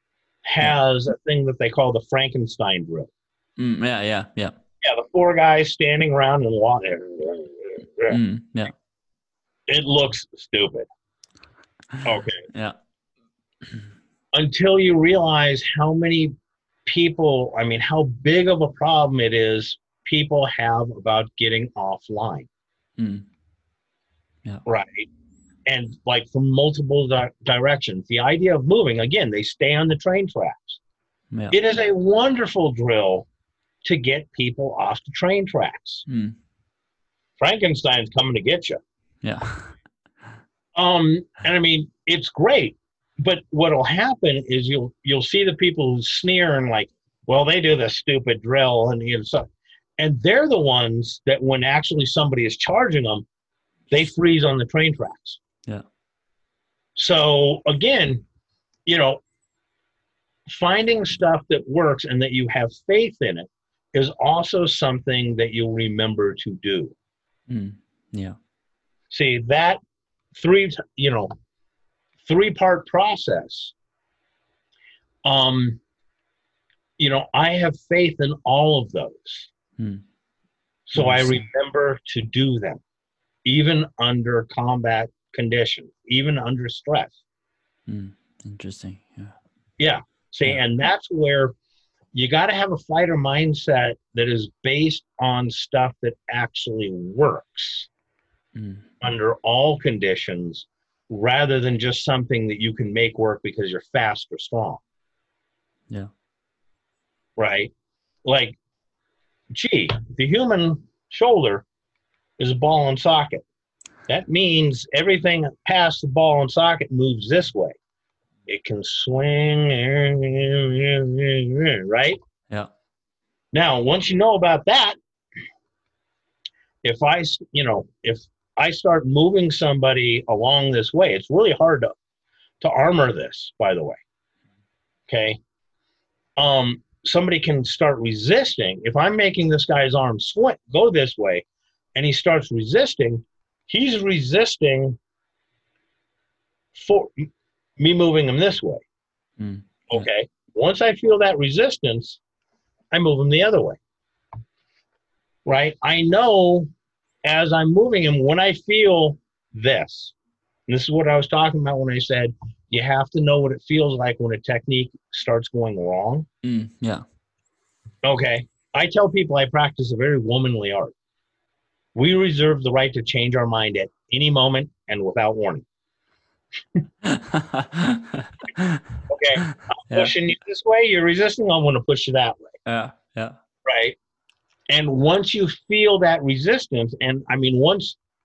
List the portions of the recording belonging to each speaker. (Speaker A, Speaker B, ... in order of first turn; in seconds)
Speaker A: 0.5-3.1, 4.8-8.2, 9.7-10.9, 12.0-12.4, 14.3-16.3, 16.9-22.5, 24.7-25.1, 25.7-30.8, 31.5-33.3, 33.9-36.0, 37.4-38.8, 40.8-53.2, 53.9-55.4, 57.0-58.2, 58.9-59.2, 60.5-66.9, 69.1-69.8, 70.3-71.3, 72.2-73.7, 75.2-75.8, 77.0-79.5, 80.9-82.8, 83.5-87.2, 89.8-91.5, 92.1-97.9, 99.0-104.8, 107.4-107.7, 108.3-108.6, 109.5-111.7, 112.4-113.4, 114.1-117.8, 118.5-122.2, 123.5-125.0, 126.8-131.9, 132.6-134.0, 135.1-135.4, 136.4-141.4, 141.9-145.0, 146.8-148.8, 149.9-152.2, 152.9-153.8, 155.5-156.7, 157.2-160.1, 160.7-166.3, 168.0-170.9, 171.9-175.7, 179.1-182.6, 183.7-184.0, 184.7-188.0
Speaker B: 3.6-4.5, 8.1-8.7, 12.5-12.8, 23.0-23.3, 36.1-36.4, 39.2-39.8, 67.5-68.4, 79.8-80.0, 81.0-81.4, 87.9-89.3, 98.5-98.9, 149.4-150.1, 166.4-167.0, 177.0-179.0, 182.7-183.4